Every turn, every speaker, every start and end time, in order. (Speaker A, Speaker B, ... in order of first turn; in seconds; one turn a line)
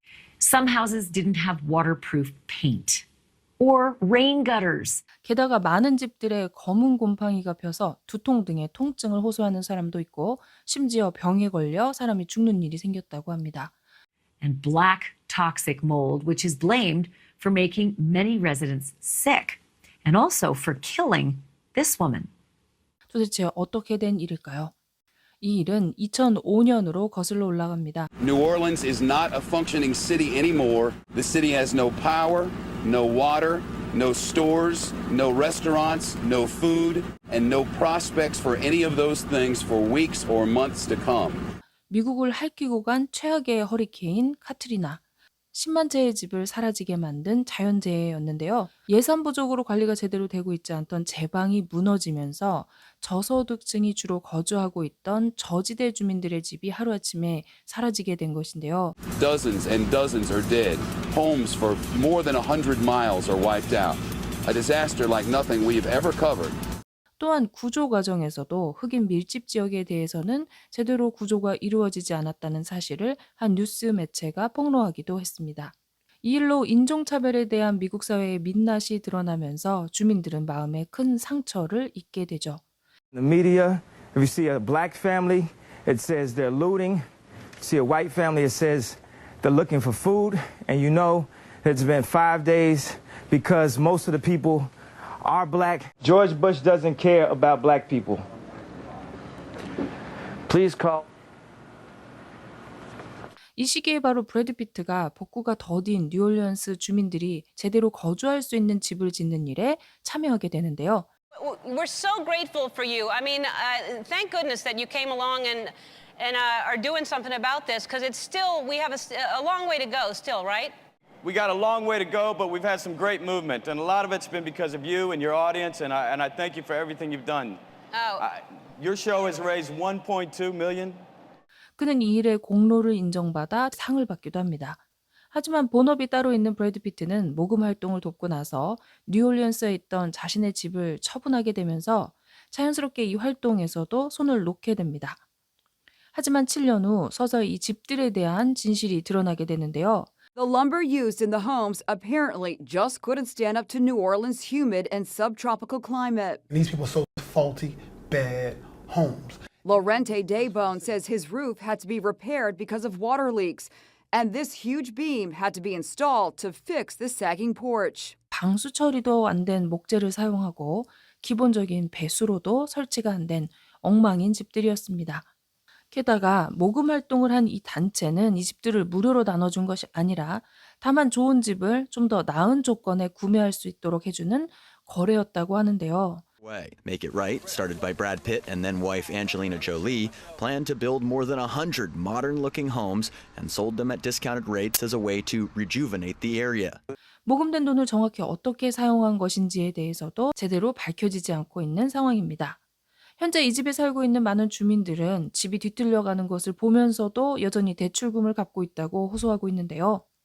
Speaker A: 0.4-3.0
Speaker A: 3.6-5.0
Speaker B: 5.2-13.7
Speaker A: 14.4-22.3
Speaker B: 23.1-24.7
Speaker B: 25.4-28.1
Speaker C: 28.2-41.4
Speaker B: 41.9-45.0
Speaker B: 45.5-58.9
Speaker C: 59.2-66.5
Speaker B: 67.2-82.6
Speaker D: 83.1-87.0
Speaker D: 87.6-94.7
Speaker D: 95.2-98.2
Speaker D: 100.5-101.0
Speaker B: 103.6-111.1
Speaker E: 111.3-120.7
Speaker F: 121.2-127.6
Speaker E: 127.9-128.2
Speaker F: 128.2-131.0
Speaker B: 131.8-134.8
Speaker B: 135.3-145.2
Speaker B: 146.1-150.1
Speaker G: 150.3-156.4
Speaker H: 156.5-159.4
Speaker G: 159.7-168.2
Speaker B: 168.3-175.3
Speaker B: 175.9-186.2
Speaker I: 186.4-196.8
Speaker B: 197.2-202.6
Speaker B: 203.2-210.0